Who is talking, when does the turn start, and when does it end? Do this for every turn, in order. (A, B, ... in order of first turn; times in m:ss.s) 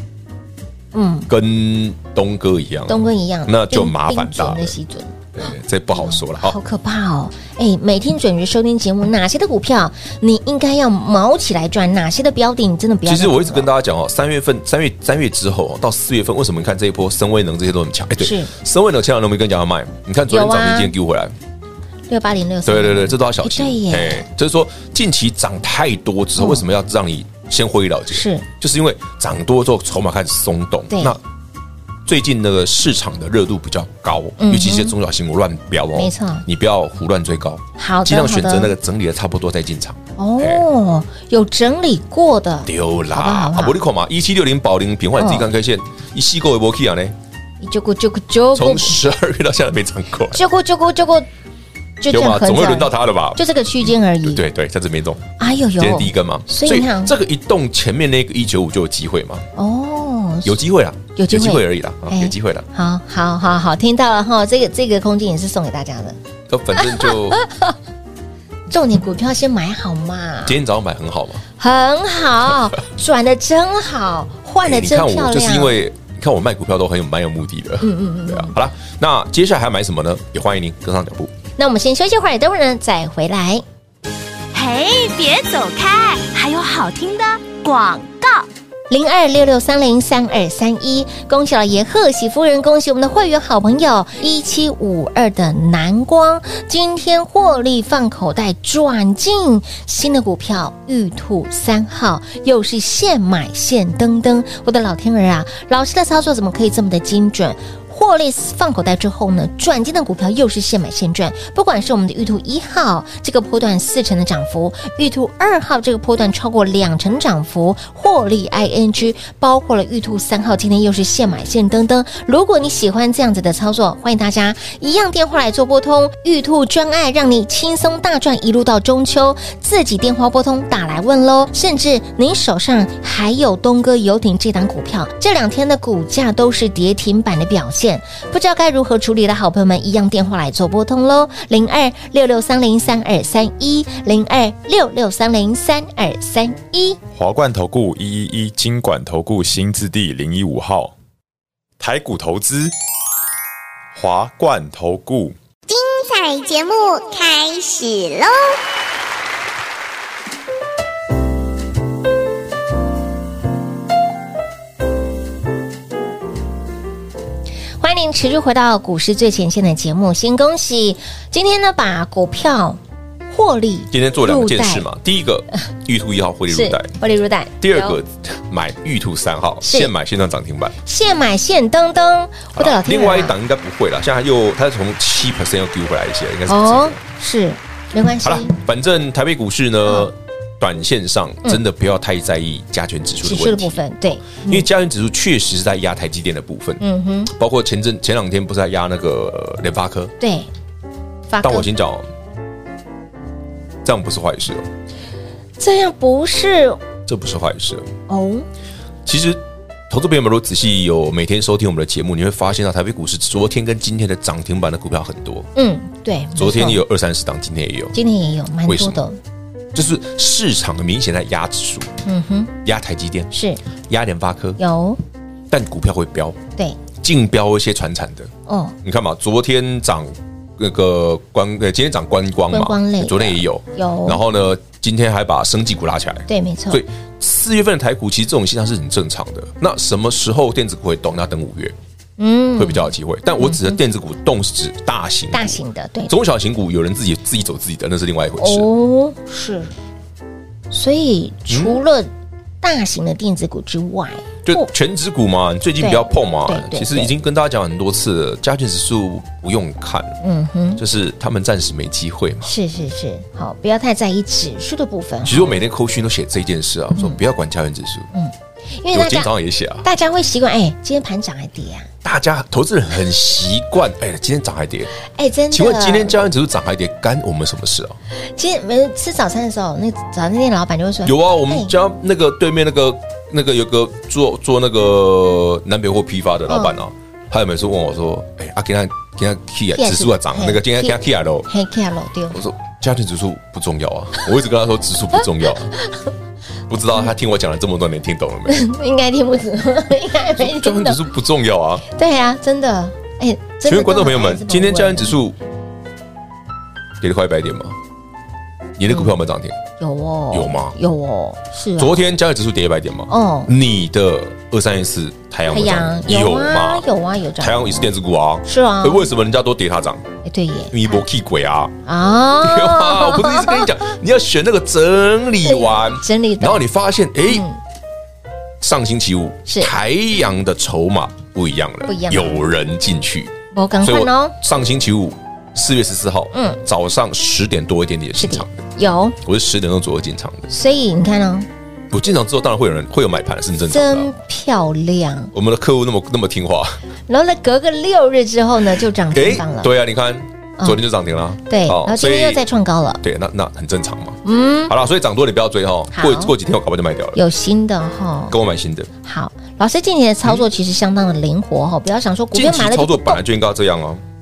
0:00.9-0:01.3 A
0:01.3-0:04.8 B
0:02.9-0:05.3 A
0:05.4-0:06.6 B
0:05.9-0:13.7 A
0:13.0-0:21.3 B
0:18.2-0:18.5 A
0:20.3-0:20.9 A
0:22.1-0:24.3 A
0:22.7-0:31.2 B
0:26.4-0:26.6 A
0:28.1-0:28.5 A
0:30.9-0:31.2 A
0:32.1-0:40.6 B
0:34.4-0:35.0 A
0:36.0-0:36.4 A
0:37.8-0:38.7 A
0:40.2-0:43.8 A
0:42.6-0:47.2 B
0:45.2-0:45.5 A
0:47.6-0:49.0 A
0:48.5-0:50.4 B
0:50.3-0:51.3 A
0:52.0-0:54.4 A
0:52.1-0:59.5 B
0:55.4-0:57.1 A
0:59.6-1:00.6 A
1:00.4-1:02.7 B
1:01.2-1:06.2 A
1:06.5-1:07.4 B
1:06.8-1:07.8 A
1:08.7-1:10.6 A
1:10.4-1:11.4 B
1:11.6-1:15.8 A
1:14.6-1:21.3 B
1:17.8-1:18.5 A
1:21.6-1:23.6 A
1:24.5-1:28.5 C
1:28.9-2:27.0 A
2:27.1-2:31.0 D
2:31.8-2:32.7 D
2:34.0-2:35.4 D
2:35.7-2:38.6 E
2:47.8-2:54.9 A
2:53.9-2:56.9 B
2:56.5-2:58.0 A
2:57.6-3:00.8 B
2:59.6-2:59.9 A
3:00.8-3:03.4 A
3:02.6-3:07.0 B
3:06.5-3:08.6 A
3:08.2-3:13.8 B
3:13.2-3:14.7 A
3:14.4-3:20.1 B
3:16.8-3:17.3 A
3:20.2-3:20.5 A
3:21.3-3:21.7 A
3:21.4-3:22.1 B
3:23.8-3:24.7 B
3:25.6-3:26.8 A
3:27.1-3:27.9 B
3:28.1-3:28.5 A
3:29.0-3:35.5 B
3:35.6-3:36.8 A
3:36.4-3:38.0 B
3:37.9-3:39.2 A
3:38.7-3:39.0 B
3:39.7-3:41.9 B
3:42.0-3:42.5 A
3:42.6-3:43.3 B
3:43.3-3:43.6 A
3:43.9-3:44.6 B
3:44.6-3:45.0 A
3:45.5-3:46.4 B
3:47.0-3:48.3 B
3:48.5-3:48.8 A
3:48.8-4:01.8 B
3:52.5-3:54.2 A
3:56.3-3:56.8 A
4:02.2-4:02.9 A
4:02.6-4:08.7 B
4:03.4-4:03.8 A
4:05.3-4:06.1 A
4:08.4-4:09.7 A
4:10.7-4:12.1 A
4:11.5-4:11.8 B
4:12.6-4:14.7 A
4:14.4-4:20.2 B
4:15.8-4:17.1 A
4:20.2-4:20.8 A
4:20.8-4:22.5 B
4:22.4-4:25.6 A
4:25.2-4:28.1 B
4:28.1-4:29.3 A
4:28.9-4:29.8 B
4:29.8-4:31.9 A
4:32.0-4:34.9 B
4:35.0-4:36.2 A
4:35.5-4:38.0 B
4:38.4-4:41.7 A
4:41.0-4:51.5 B
4:46.5-4:46.8 A
4:49.8-4:52.4 A
4:52.3-4:55.8 B
4:56.7-4:58.6 B
4:58.5-5:01.0 A
5:00.4-5:01.8 B
5:01.9-5:05.2 A
5:03.6-5:05.4 B
5:07.0-5:07.8 B
5:08.8-5:09.6 B
5:09.8-5:12.1 A
5:10.3-5:10.8 B
5:11.8-5:16.9 B
5:13.1-5:13.5 A
5:15.5-5:17.9 A
5:17.4-5:20.0 B
5:18.5-5:19.1 A
5:20.2-5:21.0 A
5:20.7-5:21.8 B
5:21.9-5:23.7 A
5:22.4-5:27.5 B
5:25.4-5:26.6 A
5:27.3-5:27.6 A
5:28.6-5:38.6 B
5:29.5-5:29.7 A
5:31.9-5:32.4 A
5:33.5-5:34.4 A
5:36.3-5:36.6 A
5:38.2-5:39.2 A
5:39.2-5:40.5 B
5:40.5-5:41.5 A
5:41.9-5:44.1 B
5:43.7-5:45.3 A
5:45.3-5:46.8 B
5:47.1-5:49.7 A
5:49.1-5:52.4 B
5:51.5-5:53.0 A
5:53.0-5:57.2 B
5:54.2-5:54.7 A
5:55.9-5:56.3 A
5:57.2-5:58.4 A
5:58.3-5:58.9 B
5:59.0-6:03.2 A
6:02.3-6:04.0 B